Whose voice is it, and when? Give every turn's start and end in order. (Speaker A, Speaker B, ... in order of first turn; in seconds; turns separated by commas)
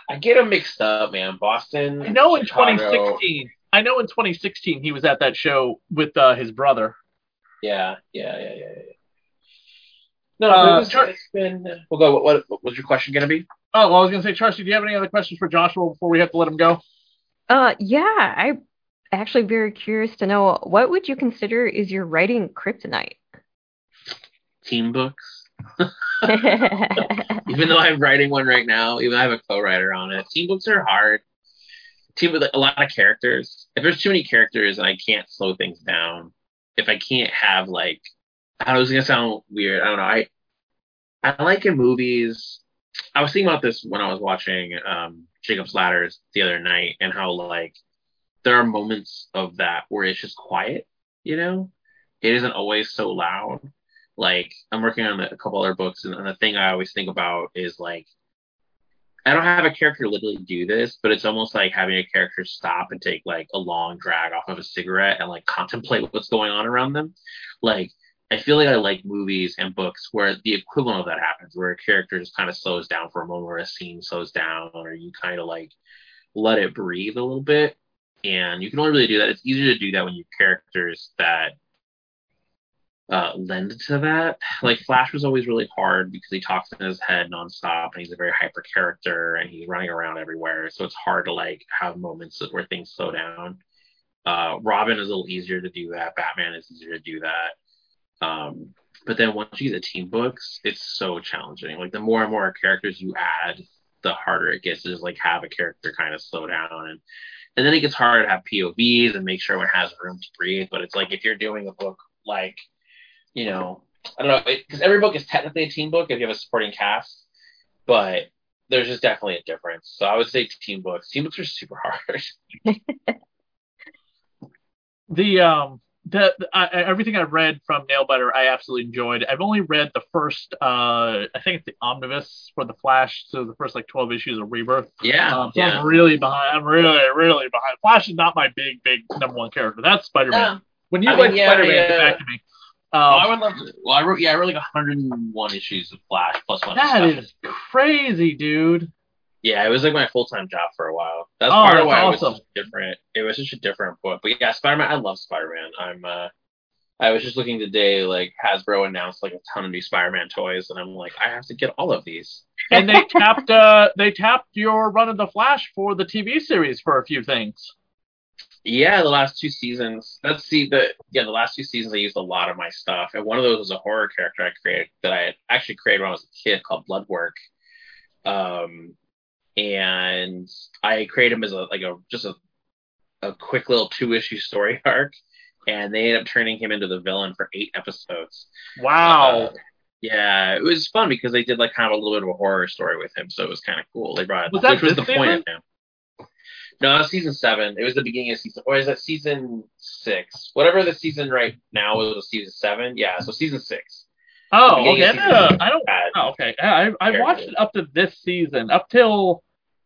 Speaker A: 0.1-3.2, Speaker B: 2.0-7.0, Speaker A: 7.6-8.9, Speaker A: 10.4-13.5, Speaker B: 10.5-11.1, Speaker B: 13.7-16.8, Speaker C: 17.5-18.6, Speaker C: 19.1-23.2, Speaker A: 24.6-26.7, Speaker C: 26.2-27.3, Speaker A: 27.4-31.2, Speaker A: 32.1-38.0, Speaker A: 38.6-40.3, Speaker A: 41.2-42.6, Speaker A: 43.1-47.8, Speaker A: 48.4-51.7, Speaker A: 52.2-58.1, Speaker A: 59.2-75.7, Speaker A: 76.3-81.5, Speaker A: 83.1-93.6, Speaker A: 94.2-97.5, Speaker A: 98.2-107.0, Speaker A: 107.6-112.6, Speaker A: 113.3-117.2, Speaker A: 117.9-122.4, Speaker B: 125.1-143.3, Speaker A: 135.0-135.8, Speaker A: 140.3-142.2, Speaker A: 143.1-147.2, Speaker B: 146.7-148.9, Speaker A: 149.4-156.3, Speaker B: 151.5-152.4, Speaker A: 157.0-162.5, Speaker B: 162.7-167.7, Speaker A: 168.6-177.3, Speaker A: 178.2-178.9, Speaker A: 179.6-182.3, Speaker A: 183.2-185.1, Speaker A: 185.7-188.5, Speaker B: 188.8-189.5, Speaker A: 189.0-195.6, Speaker B: 194.5-195.4, Speaker A: 196.8-204.1, Speaker B: 204.5-209.4, Speaker A: 204.7-206.1, Speaker A: 207.1-207.5